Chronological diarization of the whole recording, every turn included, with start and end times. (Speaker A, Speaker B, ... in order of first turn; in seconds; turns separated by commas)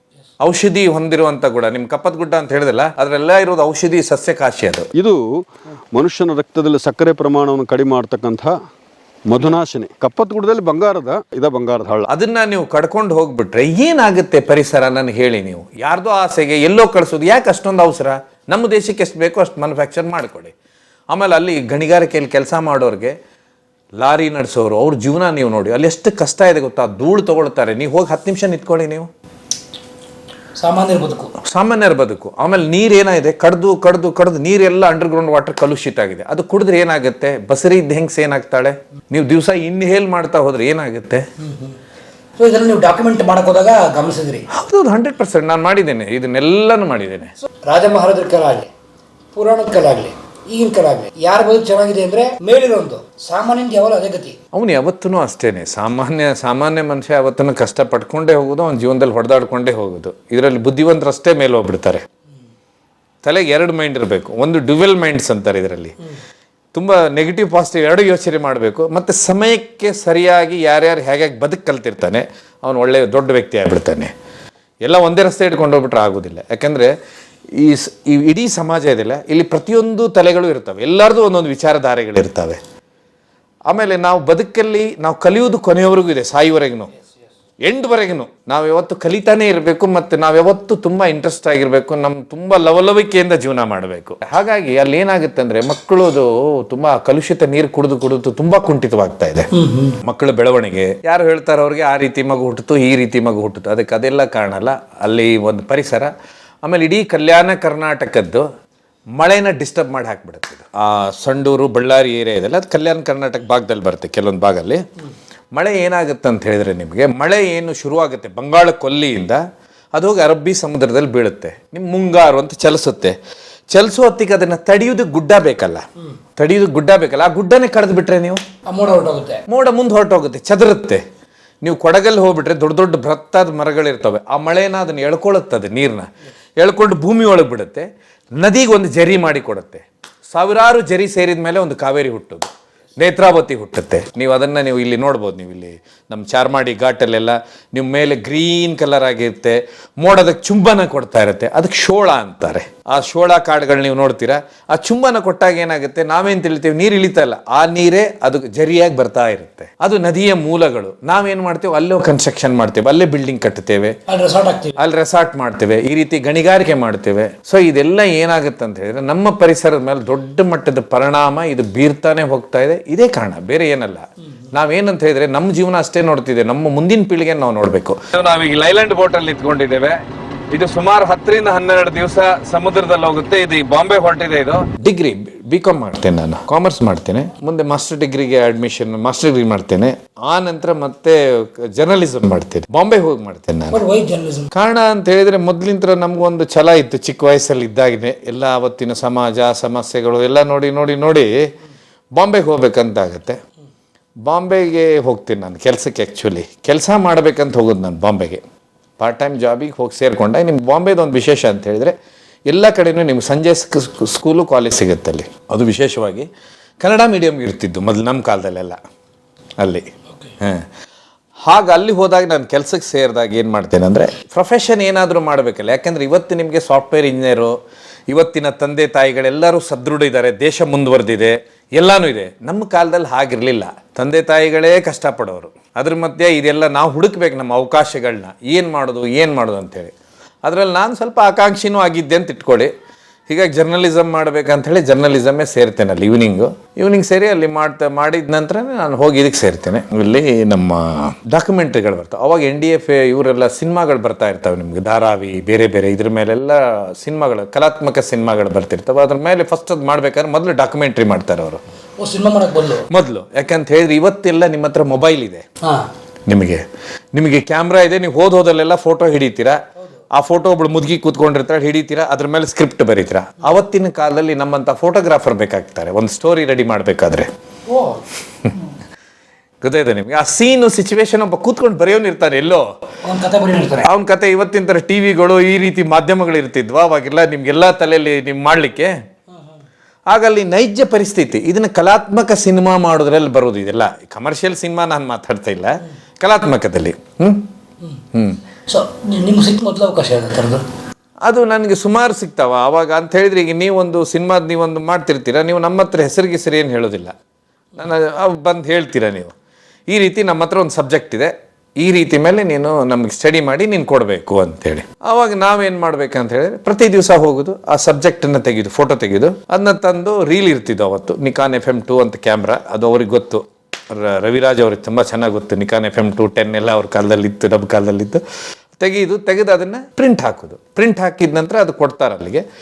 Speaker A: 0.4-4.9, Speaker B: 4.9-8.5, Speaker B: 9.3-12.1, Speaker A: 12.1-20.5, Speaker A: 21.1-23.1, Speaker A: 24.0-29.1, Speaker C: 30.6-31.3, Speaker A: 31.4-41.2, Speaker C: 41.4-41.8, Speaker C: 42.4-44.5, Speaker A: 44.5-47.3, Speaker C: 47.7-48.7, Speaker C: 49.3-54.4, Speaker A: 54.5-62.0, Speaker A: 63.2-66.0, Speaker A: 66.7-74.1, Speaker A: 74.8-76.9, Speaker A: 77.5-82.6, Speaker A: 83.7-86.9, Speaker A: 87.6-99.5, Speaker C: 99.5-100.0, Speaker A: 100.0-106.1, Speaker A: 106.6-108.4, Speaker A: 109.2-114.8, Speaker A: 115.5-119.4, Speaker A: 119.9-123.2, Speaker A: 123.7-125.8, Speaker A: 126.4-128.4, Speaker C: 128.7-129.4, Speaker A: 129.5-131.0, Speaker A: 131.6-137.9, Speaker A: 138.4-164.0, Speaker C: 164.1-164.8, Speaker A: 164.8-193.8, Speaker C: 193.7-194.5, Speaker A: 194.5-201.5, Speaker A: 202.2-203.4, Speaker A: 204.2-208.4, Speaker A: 209.0-211.9, Speaker A: 212.5-216.3, Speaker A: 216.8-218.8, Speaker A: 219.6-220.7, Speaker A: 221.4-227.5, Speaker A: 228.1-239.9, Speaker A: 240.4-242.7, Speaker A: 243.3-261.6, Speaker C: 262.0-262.9, Speaker A: 262.9-265.4, Speaker A: 266.3-269.6, Speaker A: 270.1-277.3, Speaker C: 277.7-278.0, Speaker A: 279.6-282.6, Speaker C: 283.0-283.9, Speaker A: 283.8-288.9, Speaker A: 290.1-297.5, Speaker A: 298.1-298.4, Speaker C: 298.7-300.6, Speaker A: 301.2-307.1, Speaker A: 307.8-309.3, Speaker A: 309.9-328.2, Speaker A: 328.8-332.4